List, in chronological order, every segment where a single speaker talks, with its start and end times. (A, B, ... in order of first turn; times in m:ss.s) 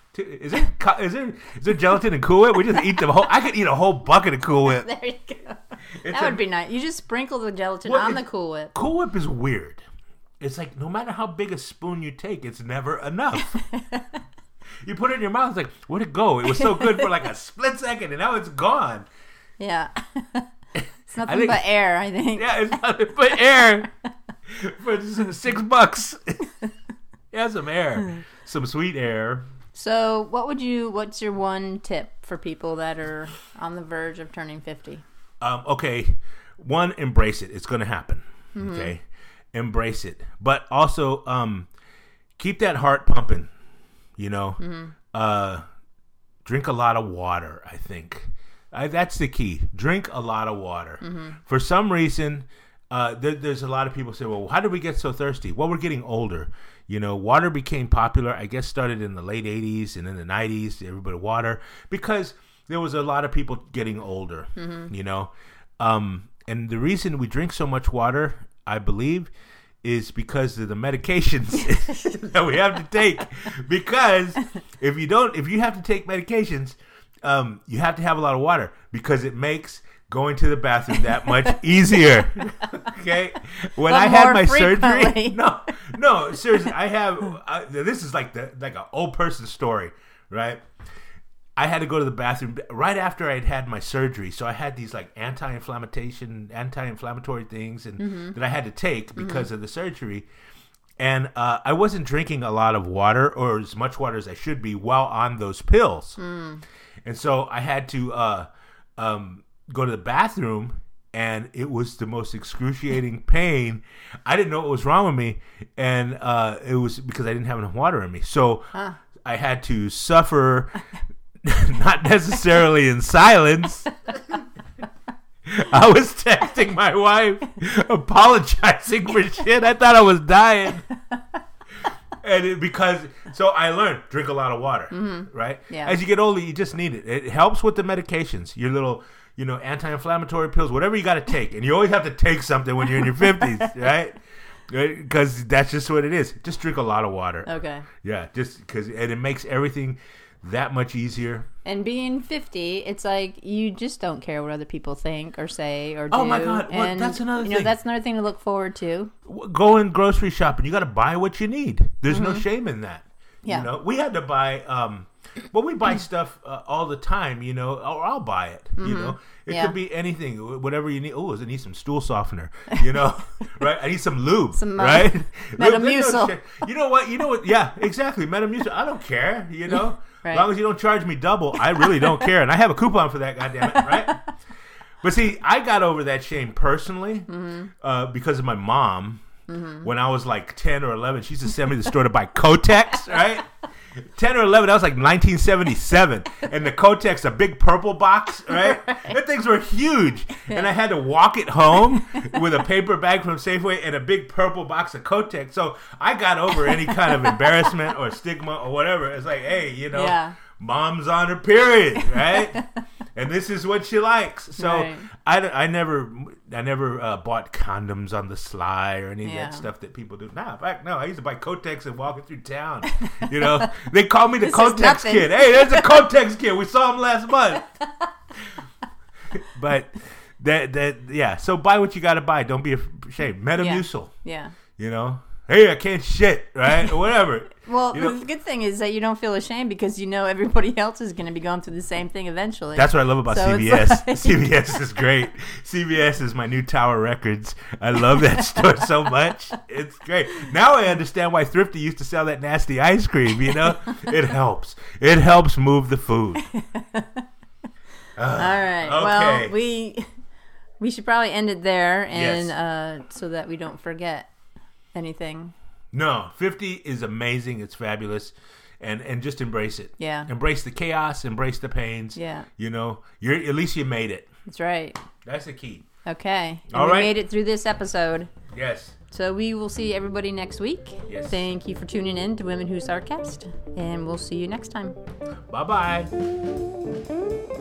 0:00.1-0:04.9 A
0:04.6-0:08.7 B
0:06.0-0:06.4 A
0:07.8-0:09.8 A
0:10.4-0:13.6 A
0:13.5-0:14.2 B
0:14.8-0:19.1 A
0:16.6-0:17.0 B
0:19.6-0:20.5 B
0:21.1-0:22.8 B
0:21.2-0:21.6 A
0:22.3-0:23.9 A
0:24.5-0:26.5 A
0:27.3-0:29.4 A
0:29.7-0:35.0 B
0:35.4-0:41.7 A
0:38.6-0:38.9 B
0:42.4-0:43.5 A
0:44.2-0:44.6 A
0:44.6-0:44.9 B
0:45.1-0:45.6 A
0:46.4-1:09.3 A
0:51.0-0:51.4 B
1:04.6-1:04.9 B
1:09.8-1:30.6 A
1:21.2-1:21.6 B
1:23.8-1:25.4 B
1:31.6-1:40.3 A
1:38.0-1:38.4 B
1:39.2-1:39.5 B
1:41.0-1:46.2 A
1:46.2-1:46.6 B
1:47.0-1:58.7 A
1:59.2-2:00.8 A
2:01.4-2:03.9 A
2:05.5-2:10.8 A
2:12.2-2:31.5 A
2:14.9-2:16.0 B
2:27.5-2:27.9 B
2:31.6-2:39.1 B
2:36.1-2:37.8 A
2:39.3-3:04.2 A
2:42.1-2:42.4 B
2:48.8-2:49.8 B
2:54.6-2:56.4 B
2:59.7-3:00.5 B
3:01.9-3:02.2 B
3:03.6-3:04.3 B
3:05.0-3:09.2 A
3:07.3-3:07.7 B
3:09.5-3:09.9 B
3:09.8-3:47.7 A
3:18.5-3:19.2 B
3:26.6-3:27.7 B
3:29.9-3:30.4 B
3:32.1-3:32.8 B
3:34.6-3:35.1 B
3:39.2-3:39.7 B
3:42.9-3:43.7 B
3:44.4-3:46.1 B
3:49.3-3:54.1 A
3:53.6-3:54.5 B
3:54.8-3:58.2 A
3:57.6-4:04.8 B
4:02.8-4:16.4 A
4:16.4-4:17.3 B
4:18.2-4:19.5 A
4:18.4-4:20.1 B
4:20.8-4:24.3 B
4:22.1-4:22.5 A
4:24.9-4:25.5 B
4:25.9-4:34.3 A
4:30.0-4:30.3 B
4:32.1-4:32.5 B
4:34.5-4:35.0 B
4:35.2-4:35.9 A
4:36.0-4:38.3 B
4:36.7-4:37.1 A
4:38.5-4:39.0 A
4:39.1-4:45.0 B
4:41.1-4:41.4 A
4:45.5-4:46.1 A